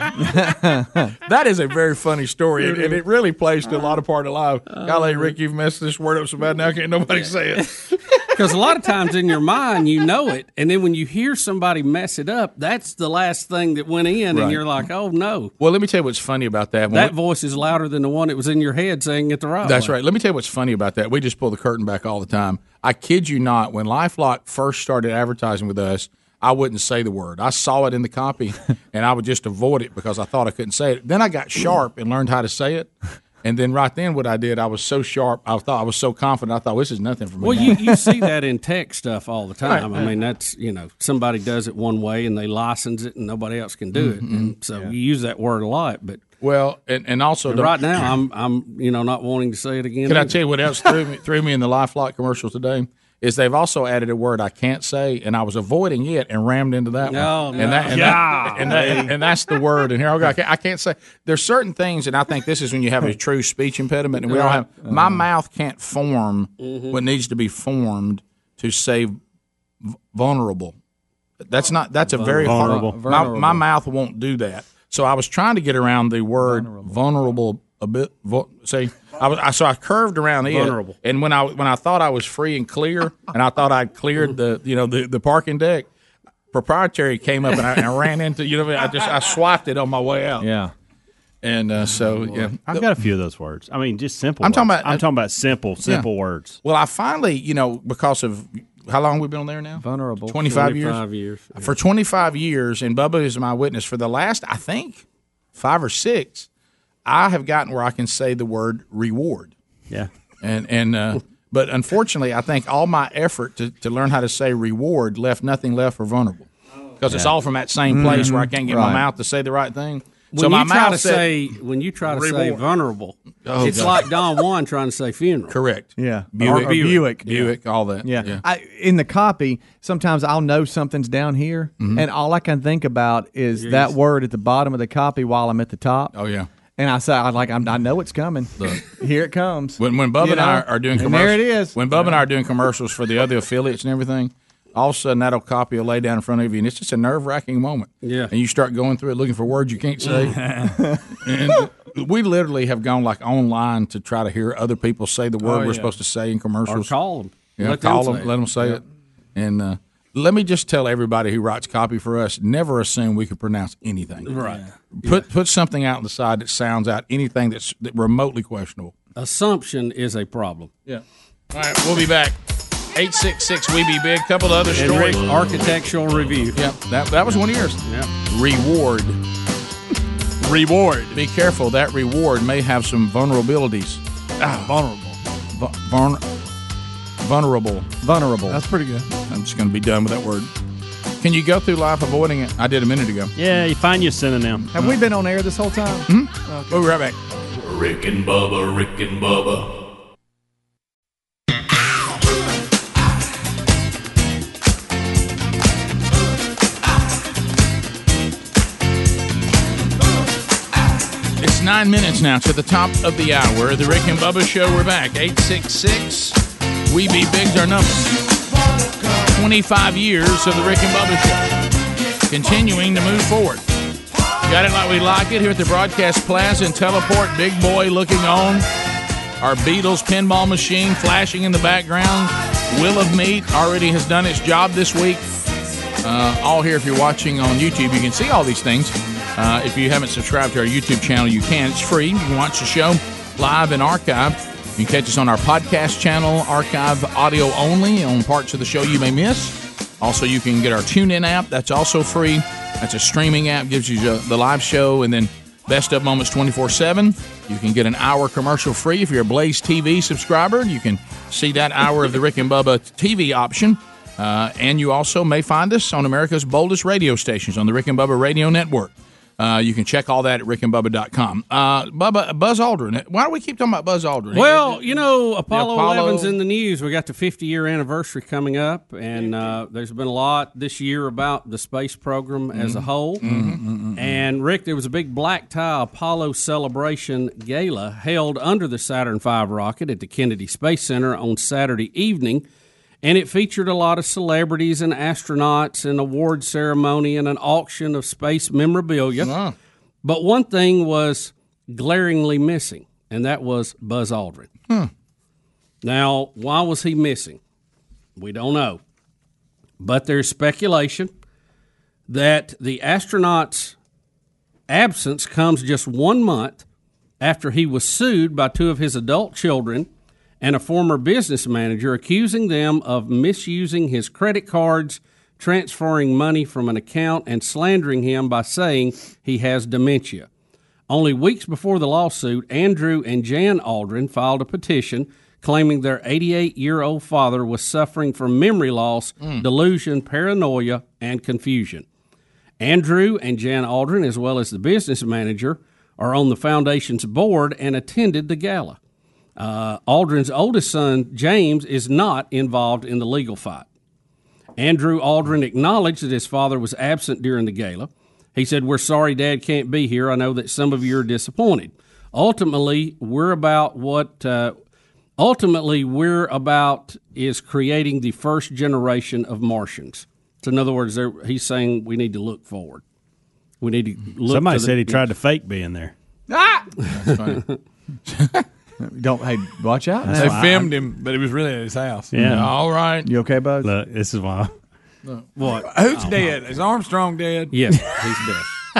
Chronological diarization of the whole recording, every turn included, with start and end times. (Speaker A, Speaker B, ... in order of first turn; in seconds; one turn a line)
Speaker A: 0.2-1.1
Speaker B: 1.2-7.8
Speaker C: 4.7-5.3
Speaker C: 8.3-15.5
Speaker B: 14.3-14.6
Speaker B: 15.6-17.1
Speaker C: 16.9-19.9
Speaker B: 19.6-32.9
Speaker B: 33.4-38.2
Speaker C: 37.4-46.2
Speaker B: 43.9-44.5
Speaker B: 46.4-48.1
Speaker C: 47.5-50.4
Speaker B: 50.1-69.2
Speaker C: 57.1-58.7
Speaker D: 57.9-58.5
Speaker A: 64.2-65.2
Speaker C: 66.6-67.0
Speaker B: 69.8-70.7
Speaker B: 71.4-85.9
Speaker A: 72.2-73.6
Speaker E: 72.4-73.0
Speaker A: 76.4-76.9
Speaker A: 80.5-80.8
Speaker B: 86.5-90.5
Speaker A: 90.4-90.7
Speaker B: 91.4-92.9
Speaker E: 92.6-96.6
Speaker B: 94.4-95.0
Speaker B: 96.6-101.0
Speaker A: 99.8-100.4
Speaker C: 100.5-101.7
Speaker B: 101.5-105.0
Speaker B: 105.5-106.5
Speaker B: 107.0-109.5
Speaker B: 110.4-121.3
Speaker A: 117.9-119.0
Speaker C: 120.3-125.5
Speaker B: 122.2-122.5
Speaker B: 123.5-124.0
Speaker B: 125.5-128.4
Speaker A: 126.0-136.1
Speaker B: 131.8-132.0
Speaker C: 133.6-133.9
Speaker B: 136.1-136.5
Speaker A: 136.8-142.1
Speaker B: 139.8-150.4
Speaker C: 148.0-148.3
Speaker D: 150.0-150.8
Speaker B: 151.2-156.9
Speaker D: 155.4-155.9
Speaker C: 156.7-158.3
Speaker B: 157.6-158.8
Speaker B: 159.3-164.3
Speaker C: 164.2-165.2
Speaker D: 164.3-164.7
Speaker B: 165.0-168.9
Speaker C: 169.2-170.7
Speaker B: 170.8-172.3
Speaker B: 172.9-175.4
Speaker C: 174.7-176.6
Speaker F: 175.2-176.5
Speaker B: 176.5-179.2
Speaker C: 177.8-178.1
Speaker D: 180.4-181.2
Speaker B: 181.1-184.0
Speaker D: 184.4-185.2
Speaker B: 185.5-186.2
Speaker B: 187.2-187.9
Speaker A: 188.0-188.6
Speaker D: 188.5-189.1
Speaker B: 189.3-190.5
Speaker B: 191.2-193.3
Speaker E: 193.3-194.7
Speaker A: 194.7-196.8
Speaker B: 196.1-197.2
Speaker F: 197.6-199.7
Speaker B: 211.4-216.4
Speaker B: 216.9-218.2
Speaker B: 219.2-221.5
Speaker B: 222.3-223.6
Speaker B: 224.4-228.7
Speaker B: 229.4-235.3
Speaker B: 236.0-275.0
Speaker C: 274.3-283.2
Speaker B: 275.5-276.3
Speaker B: 282.5-283.6
Speaker D: 283.2-284.2
Speaker C: 283.9-292.4
Speaker C: 293.0-299.3
Speaker B: 299.2-299.5
Speaker C: 300.0-304.5
Speaker C: 305.8-307.4
Speaker C: 308.1-308.8
Speaker C: 309.8-311.1
Speaker C: 312.1-313.8
Speaker C: 314.7-316.6
Speaker C: 317.2-319.9
Speaker C: 320.4-330.3
Speaker C: 330.9-341.8
Speaker C: 342.6-348.8
Speaker C: 349.4-353.7
Speaker C: 354.6-364.6
Speaker C: 365.2-372.8
Speaker C: 373.6-375.0
Speaker E: 374.3-375.9
Speaker B: 376.3-377.4
Speaker C: 377.0-377.6
Speaker B: 378.1-378.4
Speaker A: 378.8-380.6
Speaker E: 380.0-380.7
Speaker D: 380.2-382.1
Speaker E: 382.1-382.5
Speaker B: 382.2-383.1
Speaker A: 383.0-383.7
Speaker E: 383.6-384.5
Speaker C: 385.4-386.3
Speaker D: 385.6-387.5
Speaker C: 387.5-388.5